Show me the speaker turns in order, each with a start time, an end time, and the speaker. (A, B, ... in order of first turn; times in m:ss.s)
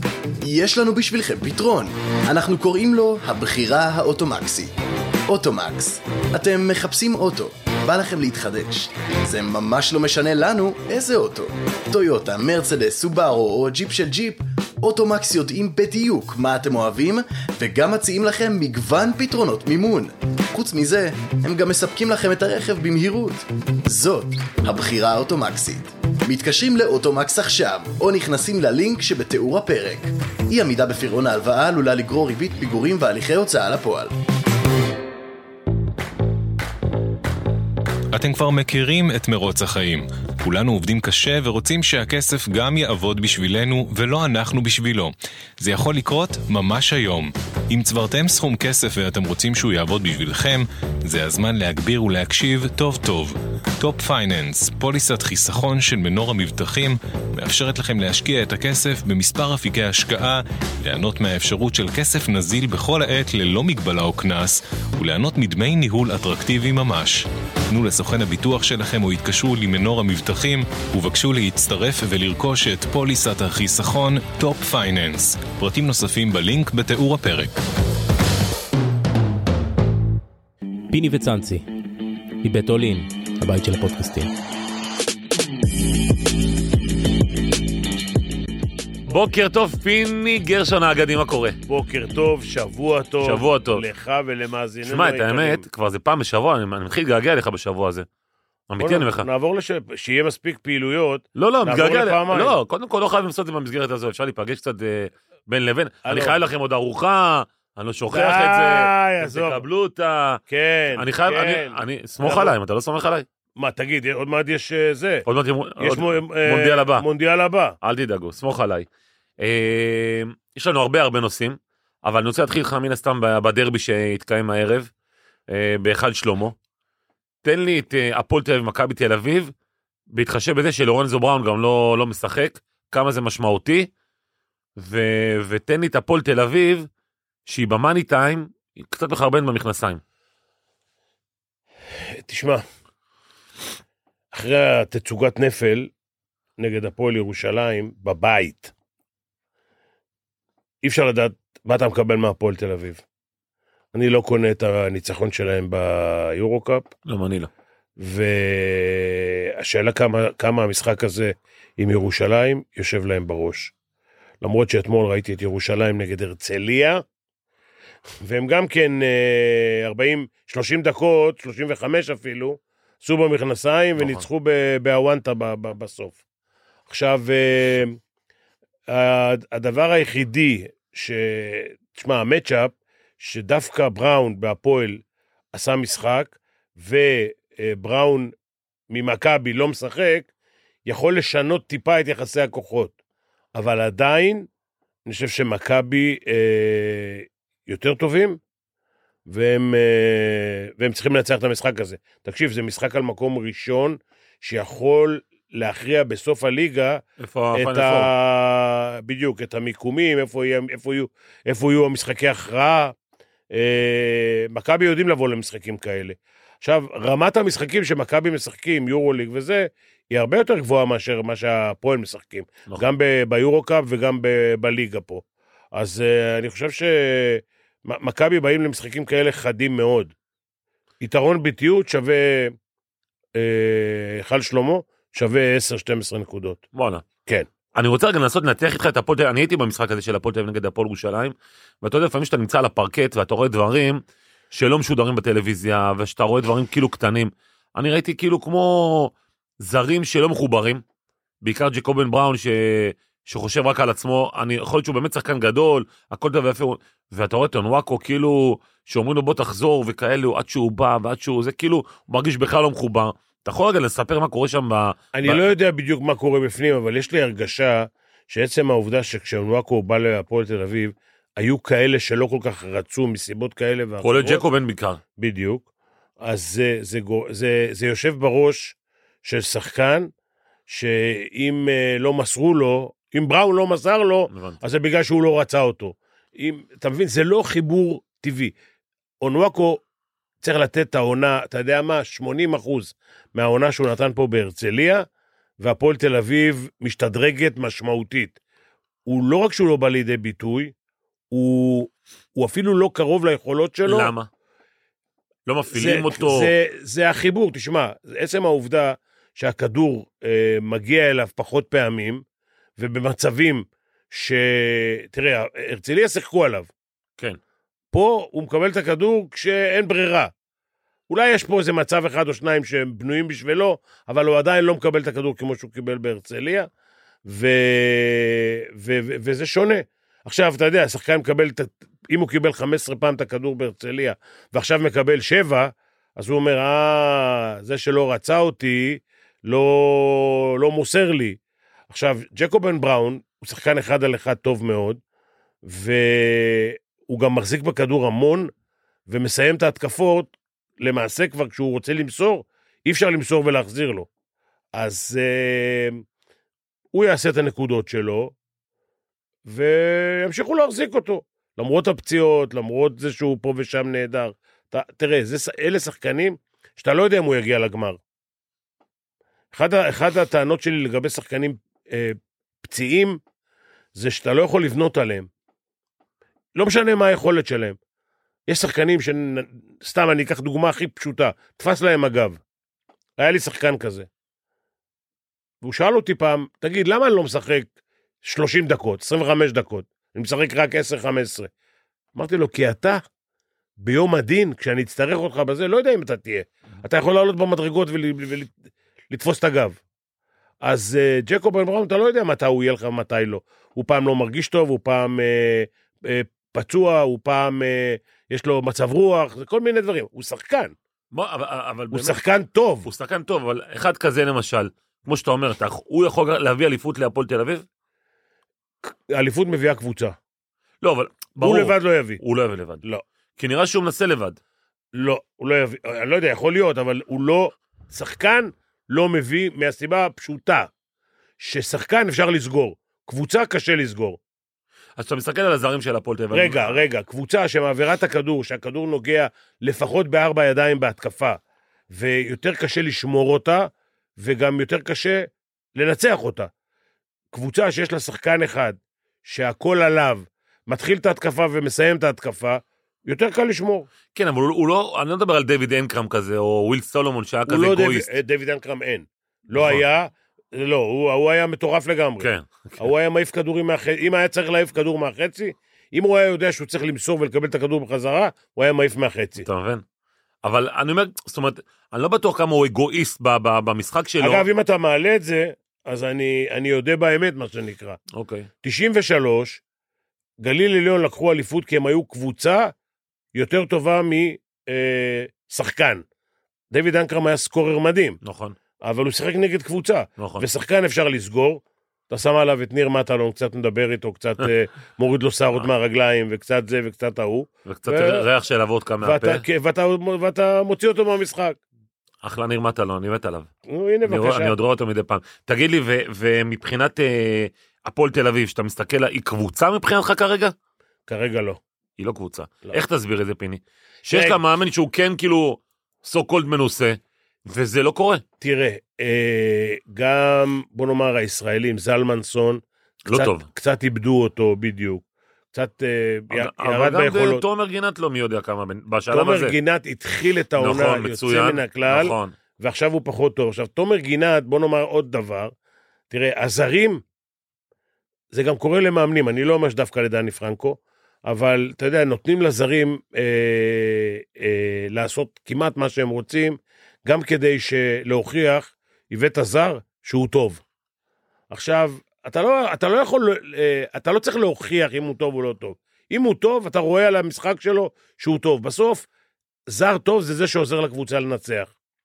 0:00.4-0:04.7 A
0:05.3-0:34.2 A
0:38.1-1:17.6 B
1:20.9-1:21.6 C
1:22.4-1:24.3 C
1:29.1-1:31.6 D
1:31.7-1:35.6 E
1:33.2-1:33.8 D
1:34.8-1:38.1 D
1:38.7-1:39.3 D
1:38.8-1:42.6 E
1:41.4-1:50.4 D
1:46.0-1:46.4 E
1:48.1-1:49.6 E
1:50.5-1:52.5 E
1:51.0-1:53.3 D
1:53.6-1:55.2 E
1:55.3-1:57.1 D
1:55.8-1:57.8 E
1:57.8-1:58.9 D
1:59.4-2:04.9 D
2:05.5-2:06.6 D
2:07.4-2:09.5 D
2:10.1-2:13.9 D
2:14.8-2:16.9 D
2:17.5-2:20.0 D
2:22.0-2:22.6 E
2:24.3-2:25.9 E
2:26.6-2:28.7 E
2:30.8-2:33.0 E
2:33.9-2:36.9 E
2:37.1-2:37.5 D
2:38.0-2:43.7 E
2:44.4-2:47.0 E
2:48.2-2:56.2 E
2:54.0-2:54.2 D
2:56.9-2:58.0 E
2:58.9-3:05.0 E
3:05.5-3:08.3 E
3:08.9-3:10.3 E
3:10.8-3:12.9 E
3:13.6-3:14.5 E
3:15.0-3:18.4 E
3:19.3-3:27.0 E
3:27.2-3:28.1 D
3:27.5-3:33.0 E
3:33.5-3:50.1 E
3:51.0-3:52.5 E
3:53.4-3:56.6 E
3:56.7-3:57.0 D
3:57.7-4:10.8 D
4:11.4-4:25.5 D
4:25.2-4:34.4 E
4:34.0-4:35.0 D
4:35.2-4:35.6 E
4:36.2-4:40.1 E
4:40.7-4:48.5 E
4:44.3-4:44.6 D
4:49.2-4:49.8 E
4:50.4-4:55.1 E
4:55.6-4:58.4 E
4:59.1-5:00.7 E
5:01.3-5:04.1 E
5:03.9-5:04.3 D
5:05.5-5:06.5 D
5:05.7-5:12.2 E
5:12.8-5:16.7 E
5:17.9-5:20.3 E
5:21.1-5:26.7 E
5:27.2-5:41.4 E
5:41.9-5:45.0 E
5:45.6-5:48.5 E
5:49.1-5:54.1 E
5:54.8-5:56.0 E
5:56.9-5:58.3 E
5:59.4-6:08.0 E
6:09.5-6:13.2 E
6:14.0-6:15.3 E
6:16.6-6:17.8 E
6:18.5-6:22.4 E
6:23.2-6:24.1 E
6:25.6-6:27.7 E
6:28.2-6:31.5 E
6:32.2-6:33.0 E
6:33.8-6:38.5 E
6:39.1-6:39.8 E
6:40.6-6:50.7 E
6:51.1-6:52.2 D
6:51.9-6:52.9 E
6:52.8-6:57.6 D
6:58.8-7:00.2 E
7:00.8-7:02.8 D
7:01.4-7:02.2 E
7:03.4-7:04.4 D
7:04.9-7:10.7 E
7:11.4-7:14.2 E
7:15.0-7:16.8 D
7:16.3-7:21.4 E
7:21.9-7:26.5 E
7:27.3-7:33.9 E
7:34.1-7:38.1 D
7:37.5-7:49.5 E
7:39.6-7:39.8 D
7:42.2-7:42.8 D
7:49.4-7:49.8 D
7:50.4-7:54.4 D
7:54.2-7:58.0 E
7:58.1-7:58.5 D
7:58.6-7:59.6 E
8:00.4-8:02.7 E
8:03.3-8:06.0 E
8:06.7-8:08.2 E
8:08.2-8:08.6 D
8:08.8-8:18.3 E
8:10.2-8:10.4 D
8:17.6-8:19.4 D
8:19.0-8:21.6 E
8:22.2-8:23.5 D
8:23.7-8:24.6 E
8:24.1-8:30.5 D
8:31.1-8:31.6 E
8:32.0-8:38.2 D
8:34.1-8:34.4 E
8:38.4-8:47.4 E
8:43.1-8:43.5 D
8:46.3-8:49.6 D
8:49.1-8:55.5 E
8:50.6-8:52.3 D
8:56.1-8:57.0 E
8:58.3-9:10.6 E
9:11.5-9:19.1 E
9:19.7-9:21.7 E